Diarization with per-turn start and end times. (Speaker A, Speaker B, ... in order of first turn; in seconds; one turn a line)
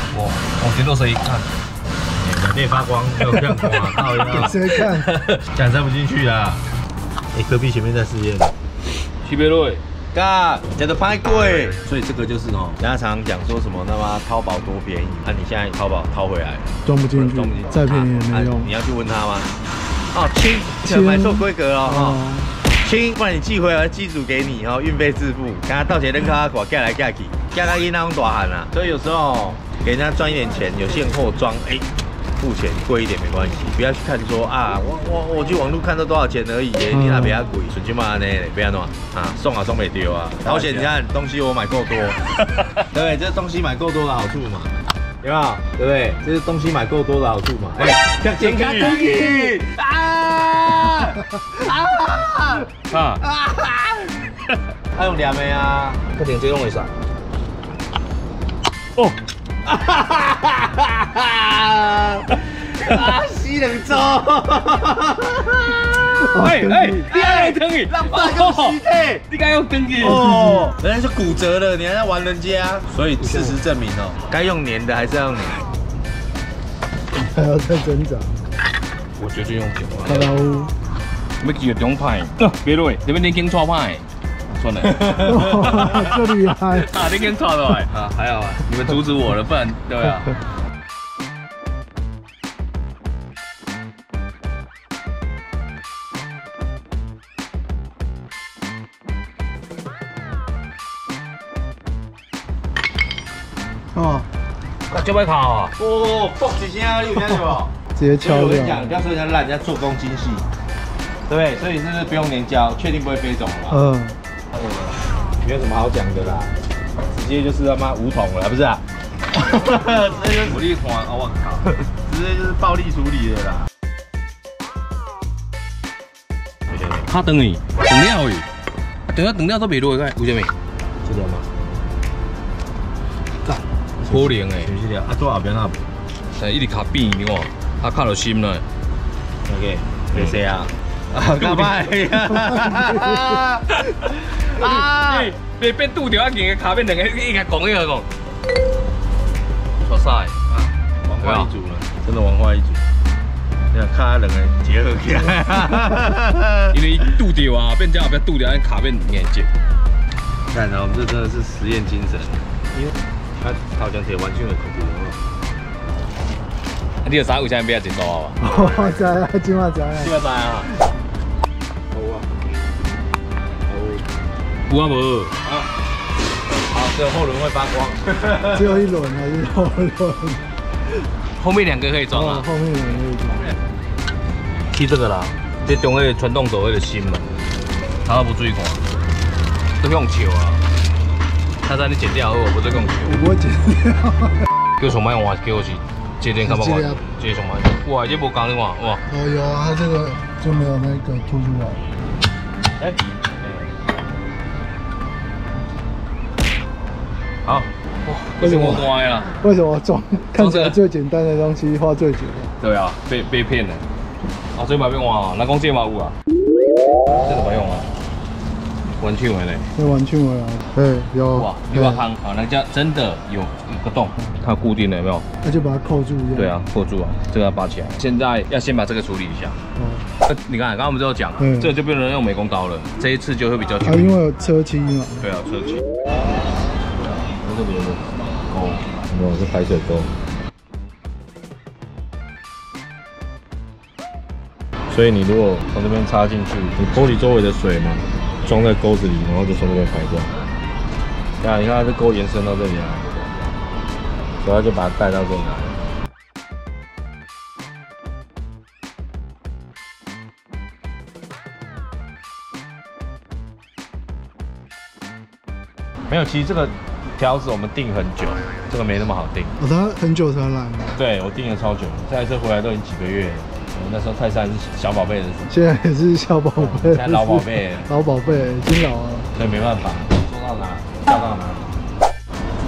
Speaker A: 0.1-1.5
Speaker B: 2.2-4.5
Speaker A: 3.8-5.4
Speaker C: 4.3-5.1
Speaker B: 5.5-6.7
Speaker B: 7.3-8.6
Speaker A: 9.2-9.8
Speaker B: 10.1-19.5
Speaker C: 16.9-18.7
Speaker B: 20.1-31.9
Speaker C: 20.8-22.5
Speaker B: 32.4-42.2
Speaker C: 36.9-37.5
Speaker A: 40.4-40.9
Speaker A: 42.4-42.8
Speaker B: 42.9-54.3
Speaker A: 47.9-49.6
Speaker A: 52.9-53.2
Speaker B: 54.9-56.0
Speaker A: 56.1-56.9
Speaker B: 59.7-60.4
Speaker B: 61.5-65.9
Speaker C: 66.2-67.0
Speaker A: 66.3-70.2
Speaker B: 67.1-69.2
Speaker B: 70.0-75.6
Speaker C: 70.0-70.6
Speaker C: 73.2-73.5
Speaker C: 77.1-78.4
Speaker A: 79.2-80.3
Speaker C: 80.0-80.7
Speaker A: 81.4-88.0
Speaker C: 85.2-86.9
Speaker B: 88.0-88.6
Speaker A: 88.6-90.4
Speaker C: 103.9-104.3
Speaker A: 104.9-105.8
Speaker B: 105.8-110.5
Speaker C: 108.0-109.0
Speaker B: 111.3-113.8
Speaker C: 113.7-114.2
Speaker A: 114.5-115.0
Speaker B: 115.4-116.6
Speaker B: 117.1-118.8
Speaker B: 119.3-120.6
Speaker A: 120.4-121.7
Speaker B: 122.0-123.7
Speaker A: 127.0-128.5
Speaker A: 129.1-130.5
Speaker B: 131.0-131.5
Speaker B: 134.0-135.9
Speaker A: 134.1-134.8
Speaker A: 136.3-138.6
Speaker B: 139.5-145.3
Speaker A: 141.2-141.8
Speaker A: 143.9-148.1
Speaker A: 149.8-151.5
Speaker B: 151.1-152.9
Speaker B: 153.7-156.8
Speaker A: 156.7-159.5
Speaker B: 160.5-162.5
Speaker B: 163.4-165.2
Speaker A: 167.0-168.4
Speaker C: 168.4-170.2
Speaker A: 169.9-170.7
Speaker B: 171.9-172.3
Speaker B: 173.7-174.1
Speaker A: 174.7-175.4
Speaker B: 176.5-178.5
Speaker C: 178.5-180.5
Speaker A: 181.4-182.5
Speaker C: 182.1-183.5
Speaker A: 184.7-187.3
Speaker A: 188.1-188.8
Speaker A: 189.8-190.6
Speaker A: 191.7-193.2
Speaker C: 193.0-194.4
Speaker A: 194.8-199.0
Speaker C: 196.4-197.1
Speaker C: 199.1-201.8
Speaker B: 202.8-203.6
Speaker A: 207.4-209.4
Speaker C: 208.4-212.5
Speaker A: 210.3-210.8
Speaker A: 212.6-213.8
Speaker A: 214.6-216.2
Speaker A: 217.2-217.9
Speaker A: 219.0-219.7
Speaker C: 219.8-222.1
Speaker A: 221.3-225.2
Speaker C: 225.4-226.5
Speaker A: 226.3-229.6
Speaker C: 229.8-230.1
Speaker A: 230.2-234.2
Speaker C: 231.4-231.7
Speaker C: 233.8-235.2
Speaker A: 235.2-235.8
Speaker B: 237.1-240.1
Speaker B: 244.9-250.3
Speaker B: 251.4-253.2
Speaker B: 254.4-255.8
Speaker B: 266.1-268.6
Speaker A: 268.7-269.5
Speaker C: 269.6-271.0
Speaker B: 271.0-275.5
Speaker C: 275.5-279.3
Speaker B: 276.6-277.9
Speaker B: 279.4-281.8